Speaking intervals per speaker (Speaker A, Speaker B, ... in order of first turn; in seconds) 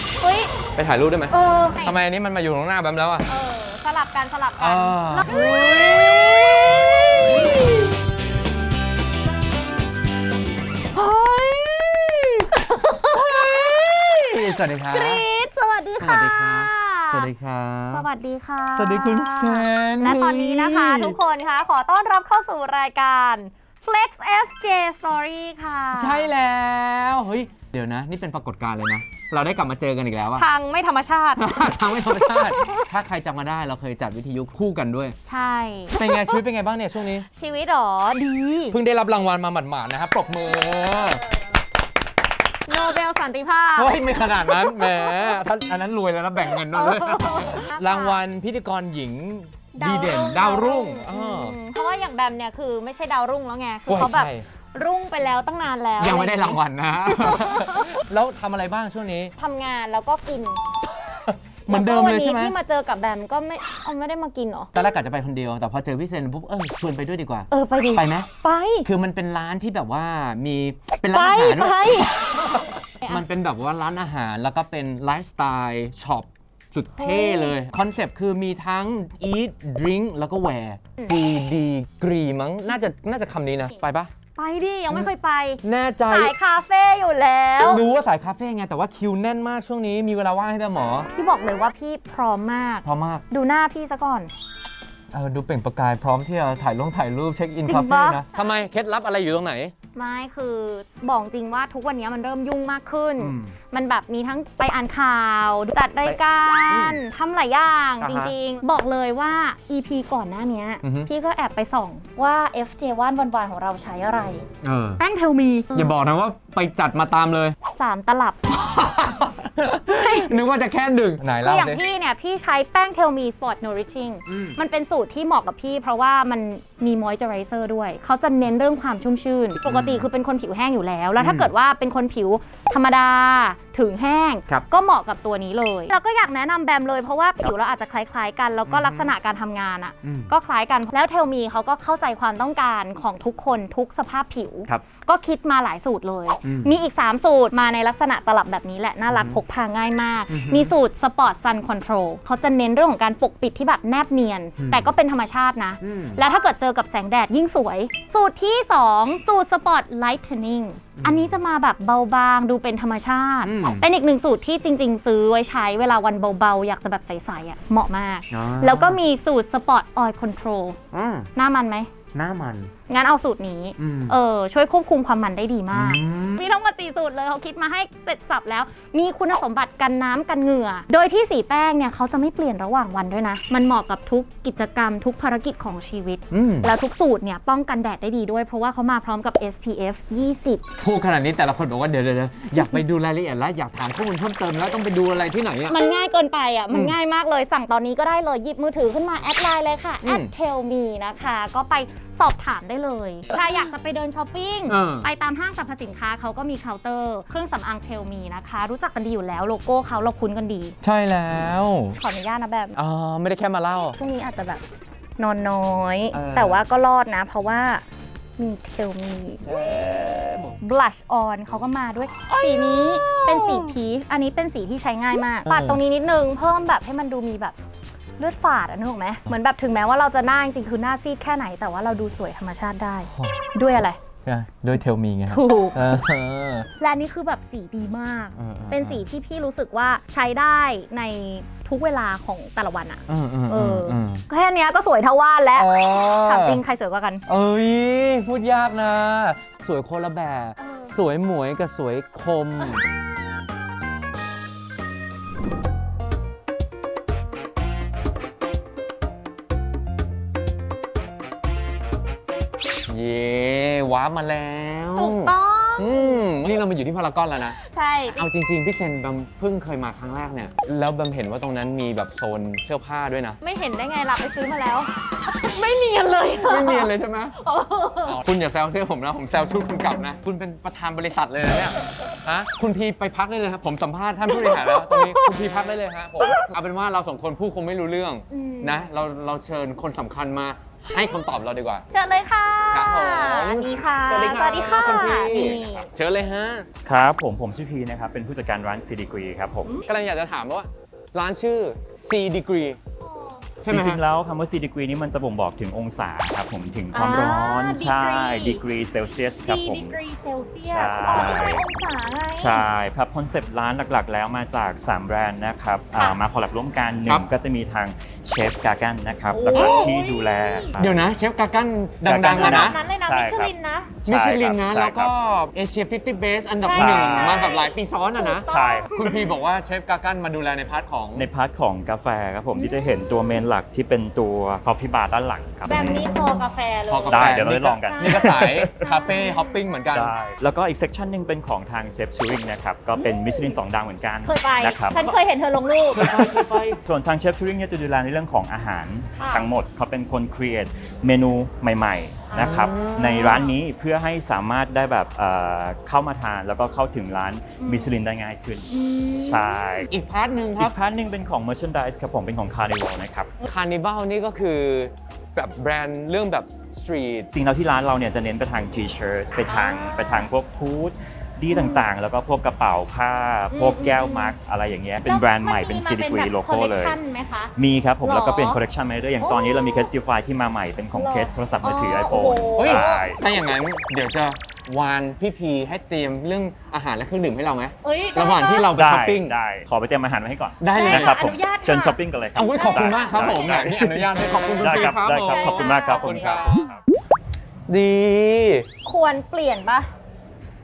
Speaker A: 0.2-0.5, 1.3-2.0, 3.2-7.6, 12.5-17.3, 17.9-26.3, 30.4-31.4, 32.2-32.8, 35.2-36.4, 37.3-38.8, 42.7-45.4, 46.5-48.2, 49.7-58.0, 59.4-60.6, 61.7-64.7, 67.5-68.8, 71.1-73.2, 77.0-77.5, 84.3-87.8, 91.1-94.3, 97.6-98.2, 99.9-114.4, 115.0-115.9, 117.7-118.5, 119.9-120.4, 121.4-170.8, 171.3-171.9, 172.9-190.6, 195.7-210.7, 211.9-212.8, 213.8-214.6, 215.2-217.8, 218.4-219.5, 220.6-227.6, 228.2-234.0, 235.3-236.0, 236.8-247.2, 250.6-250.9, 264.9-266.2, 267.6-268.2, 273.4-278.2, 284.3-285.4, 286.2-286.5, 288.3-288.9, 291.9-295.9, 303.0-303.4, 306.9-308.6, 309.4-312.6, 319.3-320.7, 322.3-323.9, 326.6-329.3, 335.7-339.6, 344.2-346.4, 349.2-349.5, 352.3-353.5, 357.6-357.9, 358.7-359.9, 369.5-370.3, 371.5-371.9, 373.5-374.3, 375.0-378.6, 379.2-379.9, 380.9-383.1, 387.8-388.7, 390.7-393.6, 395.2-396.7, 398.8-399.9
Speaker B: 0.8-3.3, 4.6-6.2, 7.4-7.7, 10.9-12.5, 13.1-15.2, 16.0-18.1, 18.7-21.2, 25.9-30.5, 31.4-35.1, 35.9-37.2, 38.7-41.2, 43.8-51.6, 53.9-54.4, 56.0-59.3, 61.2-62.5, 64.7-68.3, 68.8-72.0, 72.5-84.1, 85.6-86.3, 87.6-91.1, 92.8-93.2, 95.1-99.7, 103.2-103.5, 106.0-107.0, 108.0-108.3, 110.8-111.1, 114.6-115.0, 115.7-117.5, 118.6-121.8, 124.3-124.6, 129.6-130.1, 131.2-131.5, 138.7-139.1, 140.0-140.3, 146.4-146.7, 149.1-149.4, 150.3-150.7, 154.6-154.9, 155.8-156.2, 161.0-161.3, 163.4-163.9, 168.3-169.0, 170.9-171.3, 172.1-172.7, 173.8-174.2, 175.7-176.5, 186.3-186.7, 190.8-195.8, 196.7-196.9, 200.0-200.3, 204.7-205.1, 210.8-212.0, 212.8-214.0, 216.2-216.6, 219.5-220.5, 222.2-223.8, 225.4-225.8, 233.1-233.4, 234.2-236.7, 238.3-239.0, 243.1-244.2, 245.5-246.6, 247.3-252.8, 262.9-267.6, 268.1-273.4, 276.4-277.3, 278.0-291.9, 292.7-296.7, 299.9-302.8, 303.6-304.0, 319.5-319.9, 320.8-322.8, 324.0-331.3, 336.9-340.1, 352.3-353.4, 359.9-360.7, 363.4-367.3, 382.6-389.4, 390.6-391.1, 392.4-396.6, 397.7-398.6
Speaker C: 216.1-216.5, 294.6-295.9, 296.8-299.7, 303.7-309.9, 310.6-311.6, 312.4-321.0, 322.0-325.1, 326.7-327.6, 328.5-329.2, 331.1-336.1, 337.1-338.7, 339.9-345.1, 345.9-359.9, 360.6-363.3, 367.3-377.0, 377.6-383.2, 388.7-396.8